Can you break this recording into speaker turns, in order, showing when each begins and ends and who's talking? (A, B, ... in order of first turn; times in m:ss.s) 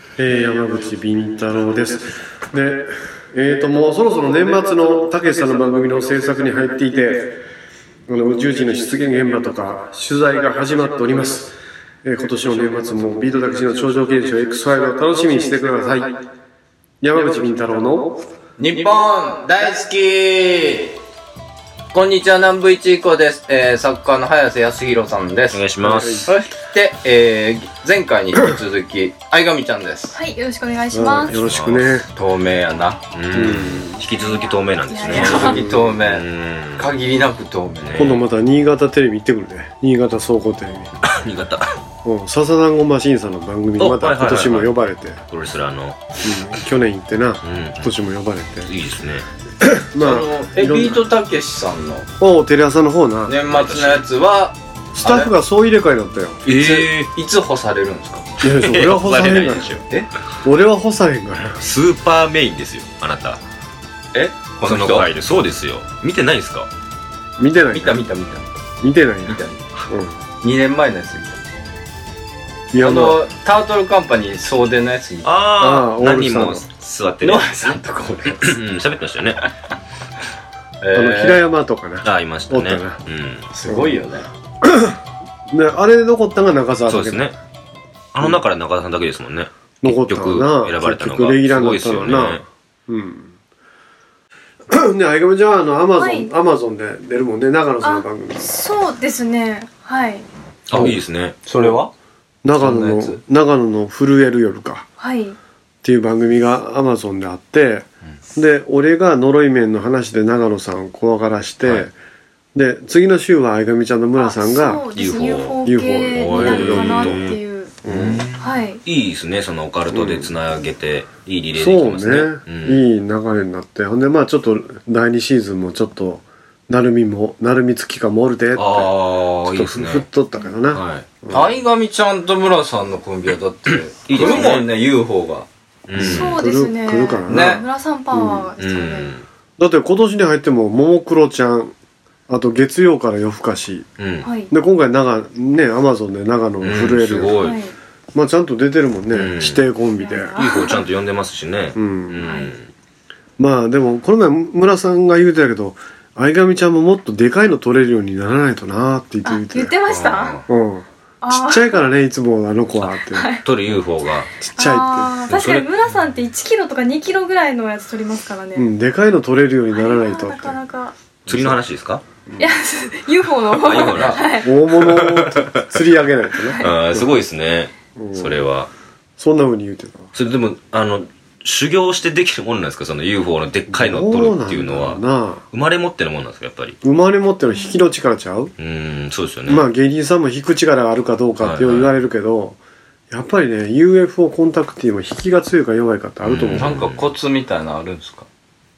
0:00.2-0:07.4 A
0:08.1-0:16.3 A
0:17.0-0:18.3 A
0:18.6-0:21.0 B
0:21.9-0:25.6 B
0:25.5-0:26.3 C
0:25.8-0:26.3 A
0:26.3-0:30.2 B
0:30.1-0:31.4 D
0:30.9-0:32.1 A
0:31.4-0:32.0 C
0:32.2-0:33.0 B
0:33.1-0:36.9 C
0:33.3-0:34.0 A
0:34.2-0:35.6 D
0:35.0-0:38.1 B
0:35.4-0:36.0 A
0:37.8-0:38.2 C
0:38.0-0:41.0 A
0:41.0-0:41.7 C
0:42.0-0:45.2 A
0:43.8-0:46.2 C
0:46.2-0:48.7 A
0:47.4-0:47.9 C
0:48.6-0:49.3 C
0:49.6-0:51.0 A
0:50.0-0:52.1 B
0:52.2-0:53.4 A
0:53.3-0:55.3 B
0:53.5-0:54.0 C
0:55.0-0:56.4 A
0:56.5-0:57.1 C
0:56.5-0:58.3 B
0:58.4-0:59.8 A
0:58.4-0:59.8 C
1:00.4-1:01.6 A
1:01.6-1:03.4 C
1:04.1-1:05.1 B
1:04.6-1:06.7 C
1:07.4-1:08.0 A
1:07.7-1:08.6 B
1:08.8-1:10.2 A
1:09.3-1:09.7 B
1:10.4-1:11.4 B
1:12.7-1:13.2 A
1:12.8-1:15.3 B
1:15.2-1:17.7 C
1:15.6-1:16.6 A
1:17.2-1:18.6 B
1:18.4-1:19.4 C
1:20.8-1:21.4 B
1:20.9-1:23.0 A
1:22.0-1:23.5 C
1:23.5-1:24.3 B
1:23.7-1:24.0 A
1:24.6-1:27.3 A
1:26.9-1:27.3 C
1:28.1-1:32.4 C
1:29.8-1:33.3 A
1:34.7-1:38.5 A
1:36.0-1:36.3 D
1:37.8-1:40.2 D
1:40.7-1:41.4 C
1:40.7-1:41.0 A
1:41.4-1:41.9 B
1:42.4-1:44.9 A
1:42.6-1:43.2 B
1:45.0-1:45.4 D
1:45.8-1:51.9 A
1:52.5-1:54.9 A
1:54.2-1:57.7 D
1:54.9-2:02.8 C
1:55.6-1:57.3 A
1:57.8-1:58.2 A
1:58.4-1:58.8 D
1:59.9-2:00.3 A
2:01.6-2:11.6 A
2:08.6-2:10.0 C
2:10.7-2:11.1 C
2:11.3-2:15.5 B
2:14.1-2:14.7 C
2:14.2-2:14.5 D
2:15.9-2:16.4 C
2:16.0-2:18.5 A
2:16.0-2:19.1 D
2:17.3-2:17.6 B
2:18.6-2:19.2 C
2:19.6-2:21.7 A
2:22.3-2:23.9 A
2:24.0-2:24.3 C
2:24.2-2:24.5 D
2:24.5-2:27.5 A
2:26.6-2:27.6 C
2:27.4-2:27.7 D
2:28.1-2:30.4 A
2:29.1-2:29.6 C
2:30.0-2:30.8 D
2:30.4-2:32.7 C
2:31.8-2:32.4 A
2:32.2-2:32.5 D
2:33.4-2:39.8 A
2:39.2-2:40.4 D
2:39.9-2:40.5 C
2:40.5-2:43.8 A
2:41.2-2:41.8 D
2:42.8-2:44.3 C
2:43.1-2:43.4 D
2:44.4-2:45.2 A
2:44.6-2:48.7 D
2:45.3-2:45.7 C
2:48.6-2:50.6 A
2:49.7-2:51.0 D
2:51.2-2:51.6 A
2:51.3-2:52.0 C
2:52.3-2:52.5 A
2:52.4-2:54.5 D
2:53.5-2:55.7 C
2:53.8-2:54.2 B
2:54.4-2:57.2 A
2:56.6-2:58.7 C
2:58.0-2:58.5 A
2:59.2-3:00.1 A
3:00.2-3:05.0 C
3:03.7-3:05.4 A
3:05.5-3:06.8 C
3:06.8-3:08.5 A
3:08.6-3:09.7 C
3:09.5-3:12.6 A
3:11.4-3:11.9 C
3:13.1-3:16.8 A
3:16.2-3:17.0 C
3:16.5-3:18.3 B